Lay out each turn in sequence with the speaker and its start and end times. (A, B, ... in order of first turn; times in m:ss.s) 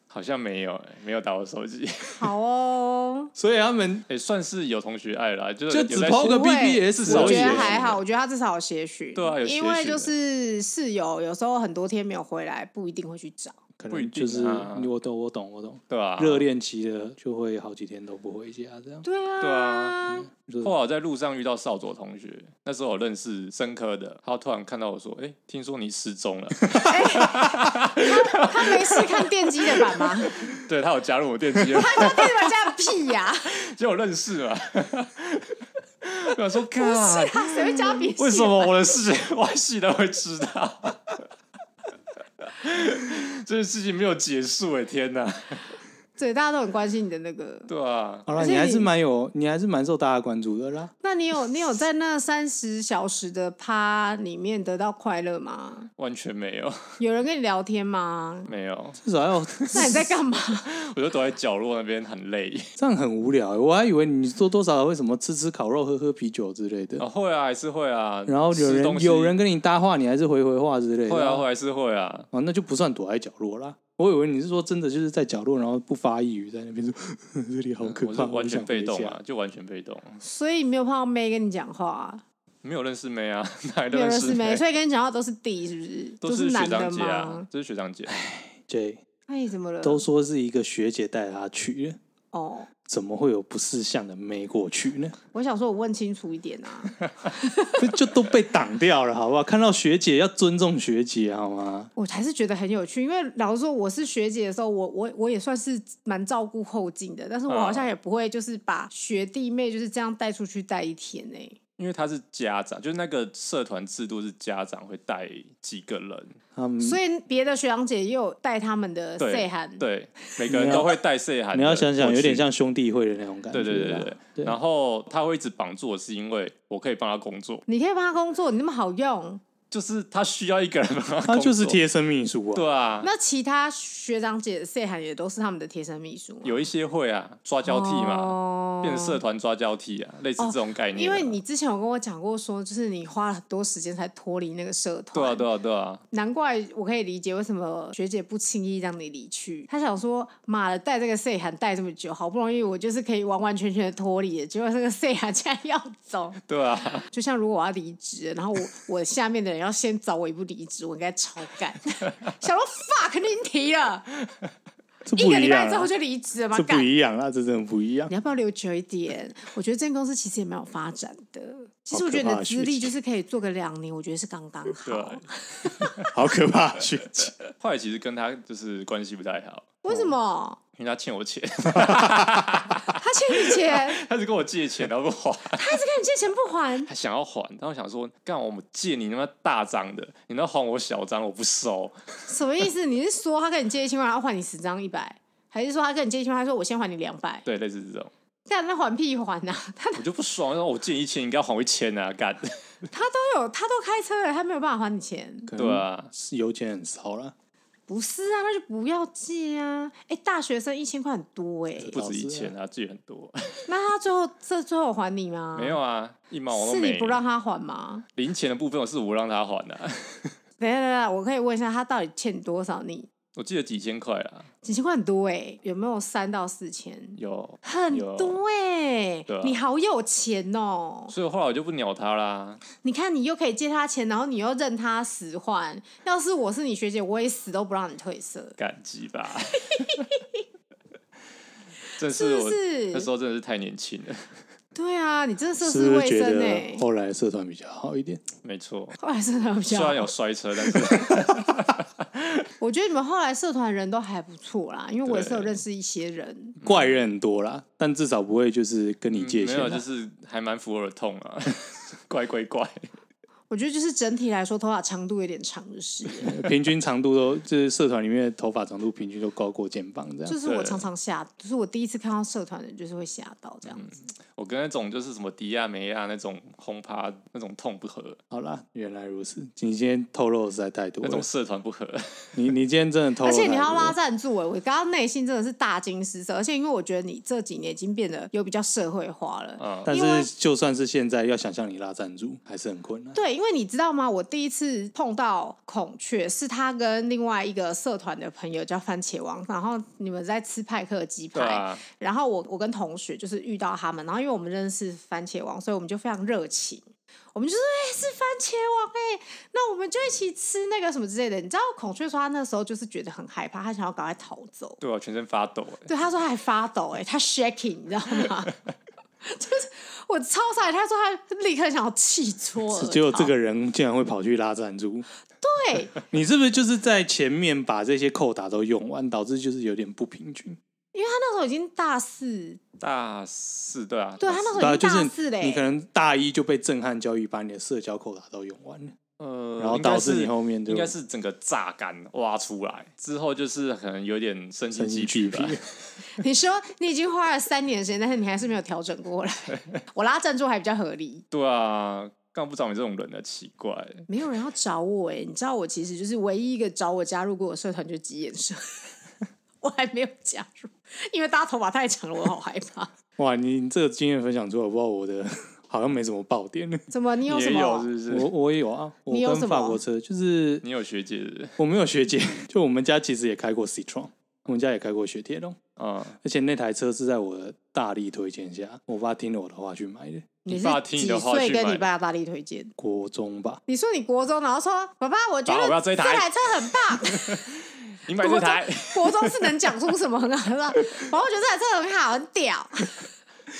0:00.1-0:02.3 A
0:02.2-0:03.3 B
0:03.4-0:04.1 C
0:04.1-0:08.0 A
0:05.7-0:08.0 C
0:06.2-0:13.6 B
0:09.2-0:10.1 A
0:13.8-0:19.0 C
0:13.9-0:14.9 A
0:15.9-0:16.4 A
0:19.0-0:20.3 B
0:19.4-0:32.7 A
0:20.4-0:20.7 C
0:26.8-0:30.4 B
0:31.7-0:33.5 B
0:33.4-0:41.2 A
0:36.8-0:38.8 B
0:42.4-0:45.7 A
0:46.2-0:47.7 B
0:47.7-0:48.3 A
0:48.3-0:50.9 C
0:48.4-0:48.9 B
0:51.0-0:55.9 B
0:56.0-0:57.0 A
0:57.0-0:58.5 B
0:58.5-0:59.0 A
0:59.0-1:00.1 C
0:59.6-1:02.7 A
0:59.7-1:00.7 B
1:02.8-1:07.1 C
1:07.0-1:09.4 A
1:08.3-1:11.4 C
1:11.1-1:12.3 A
1:12.3-1:19.2 C
1:17.8-1:20.2 A
1:20.2-1:22.2 B
1:22.6-1:24.6 A
1:23.9-1:27.5 B
1:26.2-1:28.1 A
1:28.1-1:29.0 C
1:29.3-1:30.0 B
1:29.8-1:32.0 C
1:32.3-1:32.7 B
1:32.9-1:35.2 C
1:35.3-1:37.9 B
1:37.8-1:41.9 C
1:42.0-1:51.6 B
1:47.5-1:47.9 A
1:51.8-1:56.4 A
1:56.6-1:57.0 C
1:56.8-1:59.8 B
1:59.2-2:02.5 A
2:00.5-2:00.9 C
2:01.5-2:04.6 C
2:03.5-2:07.6 A
2:07.7-2:09.4 B
2:09.7-2:11.8 A
2:11.2-2:12.6 C
2:12.5-2:13.1 A
2:13.0-2:16.6 B
2:16.4-2:21.4 A
2:17.6-2:19.2 B
2:20.4-2:25.5 B
2:25.1-2:26.0 A
2:26.1-2:36.4 B
2:36.5-2:37.1 A
2:37.1-2:44.1 B
2:45.1-2:45.9 C
2:45.1-2:46.9 B
2:46.5-2:48.1 C
2:48.1-2:56.0 B
2:51.9-2:52.9 C
2:54.9-2:55.2 A
2:55.8-2:56.1 A
2:56.0-2:57.4 C
2:57.2-2:59.7 A
2:59.8-3:00.6 B
3:00.8-3:05.8 A
3:01.8-3:02.2 C
3:02.9-3:04.0 B
3:05.5-3:06.9 B
3:06.9-3:12.3 A
3:12.3-3:17.5 B
3:17.4-3:18.1 A
3:18.5-3:20.0 B
3:20.0-3:22.4 A
3:22.9-3:25.5 B
3:25.5-3:27.3 C
3:25.6-3:26.1 A
3:27.9-3:32.0 B
3:31.8-3:32.5 C
3:31.9-3:33.7 A
3:33.7-3:35.8 B
3:35.5-3:37.2 A
3:36.5-3:38.0 B
3:38.2-3:40.4 A
3:40.6-3:43.1 B
3:43.4-3:44.5 A
3:44.6-3:51.1 B
3:47.2-3:48.4 A
3:49.3-3:49.6 A
3:51.1-3:52.6 A
3:52.7-3:58.6 B
3:58.6-4:00.1 A
3:59.7-4:00.4 B
4:02.0-4:04.4 A
4:02.0-4:03.1 B
4:04.8-4:06.8 B
4:05.6-4:08.2 C
4:08.4-4:09.0 A
4:09.0-4:10.1 B
4:09.7-4:12.5 A
4:12.6-4:16.6 B
4:15.1-4:15.6 A
4:16.6-4:16.9 A
4:16.6-4:19.8 C
4:19.1-4:22.9 A
4:23.5-4:26.3 B
4:26.2-4:30.4 C
4:30.3-4:33.9 B
4:30.4-4:30.8 A
4:33.7-4:38.2 A
4:38.3-4:41.3 C
4:41.0-4:42.4 A
4:42.4-4:44.0 C
4:43.2-4:50.3 B
4:49.6-4:49.9 A
4:49.9-4:53.2 C
4:53.2-5:14.8 B
5:01.3-5:01.8 A
5:14.8-5:15.9 A
5:15.9-5:18.5 B
5:19.2-5:23.3 B
5:22.7-5:25.1 C
5:25.4-5:26.0 B
5:26.1-5:30.6 C
5:30.9-5:32.6 B
5:32.8-5:34.8 A
5:34.2-5:35.6 B
5:34.6-5:39.0 C
5:39.2-5:46.0 A
5:39.6-5:40.9 C
5:44.7-5:45.6 C
5:46.1-5:51.2 B
5:51.3-5:54.1 A
5:54.1-5:58.9 B
5:59.6-6:02.9 B
6:03.2-6:06.8 C
6:06.9-6:07.9 B
6:07.3-6:08.3 A
6:08.1-6:10.6 C
6:09.1-6:09.8 B
6:10.6-6:11.6 A
6:11.6-6:15.6 C
6:15.8-6:16.2 A
6:16.2-6:20.3 C
6:20.5-6:22.7 B
6:20.5-6:21.9 A
6:22.8-6:23.6 C
6:23.7-6:27.4 B
6:25.5-6:30.0 A
6:28.2-6:33.1 B